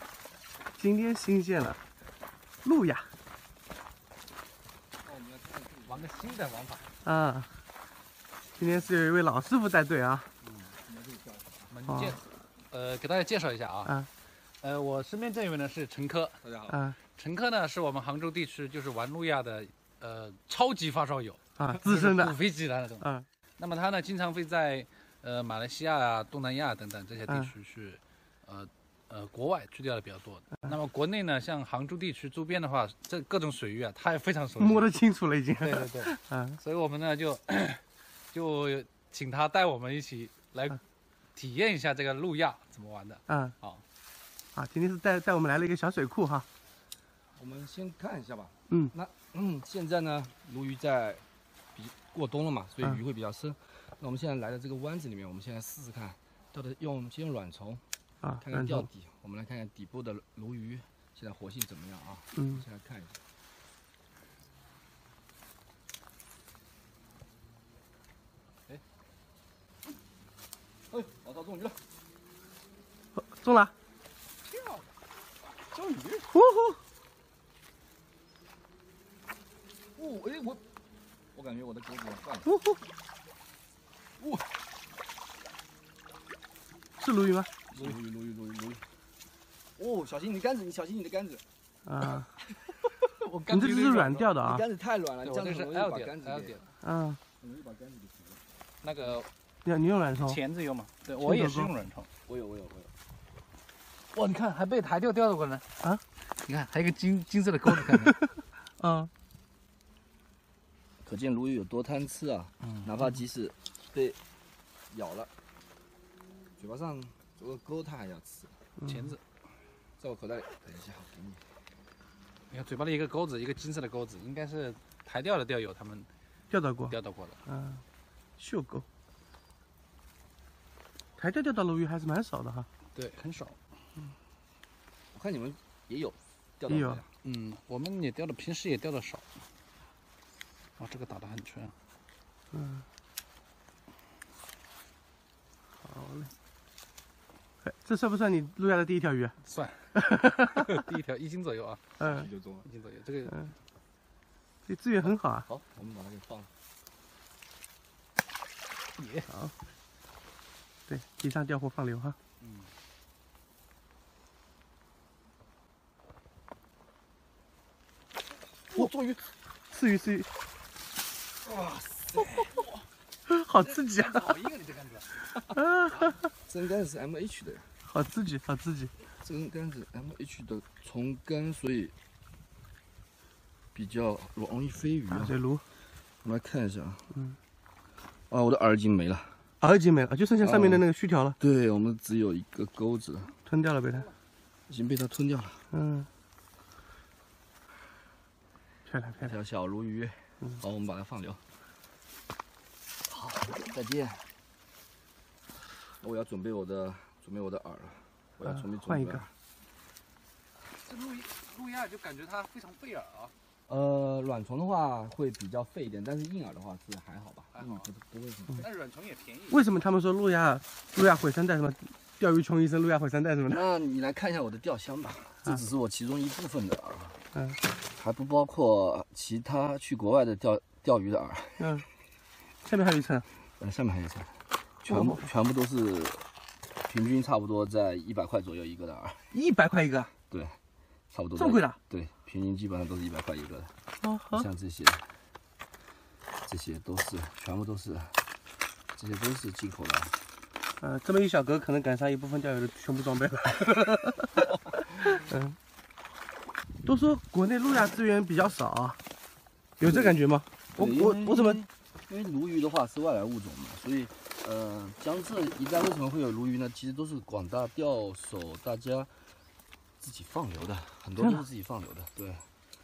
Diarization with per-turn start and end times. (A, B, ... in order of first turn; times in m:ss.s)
0:00.8-0:01.8 A
0:02.6-0:03.1 A
0:05.0-0:06.3 B
0:05.9-0:06.9 C
0:07.0-0:07.5 A
0:08.6-0:10.3 A
0:10.6-0:11.7 B
0:11.7-0:16.4 C
0:11.9-0:12.2 A
0:16.4-0:16.8 B
0:16.7-0:17.0 A
0:17.0-0:34.9 C
0:21.6-0:22.4 A
0:34.6-0:36.6 A
0:35.6-0:40.8 C
0:41.3-0:43.8 C
0:43.3-0:43.6 A
0:44.6-0:46.5 A
0:47.4-0:51.2 B
0:51.8-0:57.8 B
0:58.2-0:58.9 A
0:58.4-1:03.2 B
1:02.4-1:02.6 A
1:10.9-1:11.8 B
1:13.2-1:13.7 A
1:14.4-1:14.9 C
1:15.5-1:16.3 B
1:16.3-1:16.8 A
1:20.0-1:20.6 B
1:21.3-1:22.5 B
1:22.5-1:22.8 A
1:24.2-1:24.5 B
1:27.0-1:27.5 A
1:27.7-1:28.8 B
1:29.8-1:31.4 B
1:31.9-1:32.3 A
1:33.2-1:34.3 C
1:33.5-1:34.6 A
1:34.4-1:36.7 B
1:35.2-1:36.6 C
1:36.8-1:37.2 A
1:37.4-1:38.4 B
1:38.8-1:39.3 C
1:39.6-1:40.4 A
1:40.2-1:42.1 C
1:41.2-1:41.7 A
1:42.3-1:42.9 B
1:44.1-1:45.6 C
1:46.2-1:48.2 C
1:48.8-1:49.1 A
1:51.0-1:54.2 B
1:52.6-1:52.9 C
1:54.9-1:55.3 B
1:56.6-1:58.6 B
1:58.8-1:59.2 C
2:00.0-2:01.4 B
2:02.5-2:06.1 C
2:06.5-2:07.0 A
2:06.9-2:07.4 C
2:07.5-2:07.8 A
2:08.4-2:08.8 A
2:11.2-2:12.7 A
2:12.9-2:13.6 C
2:15.1-2:17.1 B
2:16.7-2:17.0 A
2:17.2-2:19.2 C
2:20.8-2:21.8 C
2:22.5-2:22.9 A
2:25.8-2:26.3 A
2:27.6-2:29.4 A
2:29.4-2:30.0 C
2:30.0-2:30.6 A
2:30.5-2:32.1 C
2:32.0-2:32.3 A
2:32.0-2:32.7 B
2:32.6-2:33.5 C
2:34.6-2:35.5 A
2:35.1-2:36.5 B
2:39.0-2:39.3 C
2:40.9-2:42.2 A
2:48.7-2:49.3 B
2:49.7-2:50.3 A
2:51.4-2:52.6 B
2:53.3-2:54.3 A
2:53.6-2:55.3 C
2:55.5-2:56.0 A
2:55.9-2:56.2 C
2:56.5-2:57.7 B
2:57.8-2:58.9 A
2:59.2-3:01.9 B
3:03.7-3:05.4 B
3:05.1-3:05.6 A
3:06.2-3:07.1 B
3:08.3-3:09.4 B
3:09.6-3:11.4 A
3:10.4-3:10.8 B
3:11.4-3:13.4 B
3:13.5-3:14.1 A
3:14.7-3:15.6 B
3:15.7-3:16.1 A
3:18.9-3:19.3 A
3:19.2-3:21.4 B
3:23.1-3:24.3 B
3:26.0-3:29.3 B
3:28.5-3:29.2 A
3:30.7-3:33.3 C
3:33.7-3:38.6 B
3:37.5-3:37.9 C
3:38.6-3:39.6 C
3:39.5-3:43.6 A
3:43.5-3:47.2 B
3:47.8-3:51.8 B
3:51.6-3:51.9 A
3:52.6-3:53.3 A
3:53.6-3:59.2 B
3:54.9-3:55.3 A
3:59.3-4:00.1 A
4:00.3-4:00.6 B
4:01.1-4:03.7 B
4:01.4-4:01.8 A
4:04.0-4:04.5 A
4:04.3-4:05.1 B
4:06.4-4:08.2 B
4:09.0-4:10.2 B
4:10.8-4:14.5 A
4:15.1-4:15.6 A
4:16.8-4:19.0 A
4:19.8-4:21.6 A
4:19.8-4:20.2 B
4:20.8-4:29.1 B
4:30.0-4:32.5 B